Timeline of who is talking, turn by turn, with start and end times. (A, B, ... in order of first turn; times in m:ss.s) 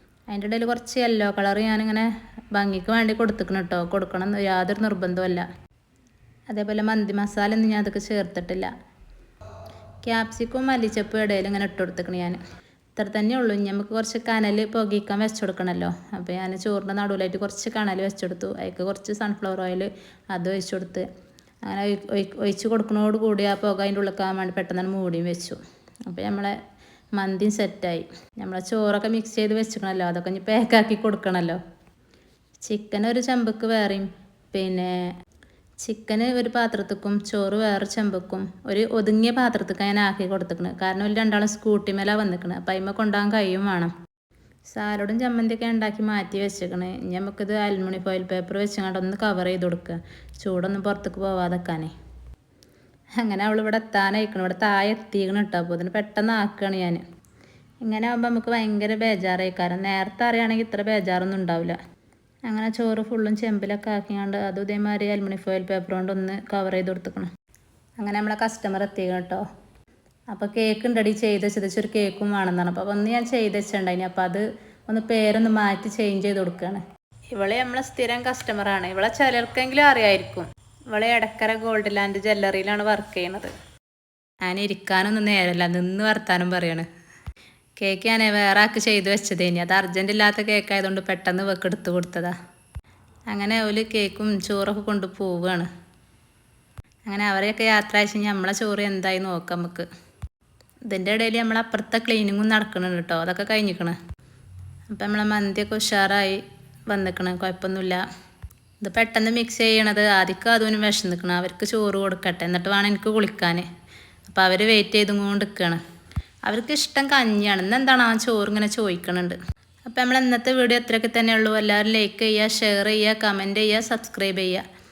0:00.3-0:05.4 A
0:06.5-0:08.7 A
0:10.0-0:12.4 A
0:13.0-0:21.0 A
0:21.6-0:26.6 A
0:27.2-0:31.6 A
0:32.6-0:35.1 A
0:35.8-0:43.9 A
0:44.7-0:51.9 A
0:53.2-0:57.0 A
0:57.8-1:01.8 A
1:02.5-1:07.3 A
1:08.0-1:09.4 A
1:10.3-1:16.8 A
1:17.3-1:23.5 A
1:24.4-1:26.9 A
1:27.8-1:32.3 A
1:33.3-1:35.7 A
1:37.1-1:39.9 A
1:40.9-1:44.0 A
1:44.9-1:48.0 A
1:48.8-1:53.7 A
1:54.3-1:55.8 A
1:56.5-2:04.6 A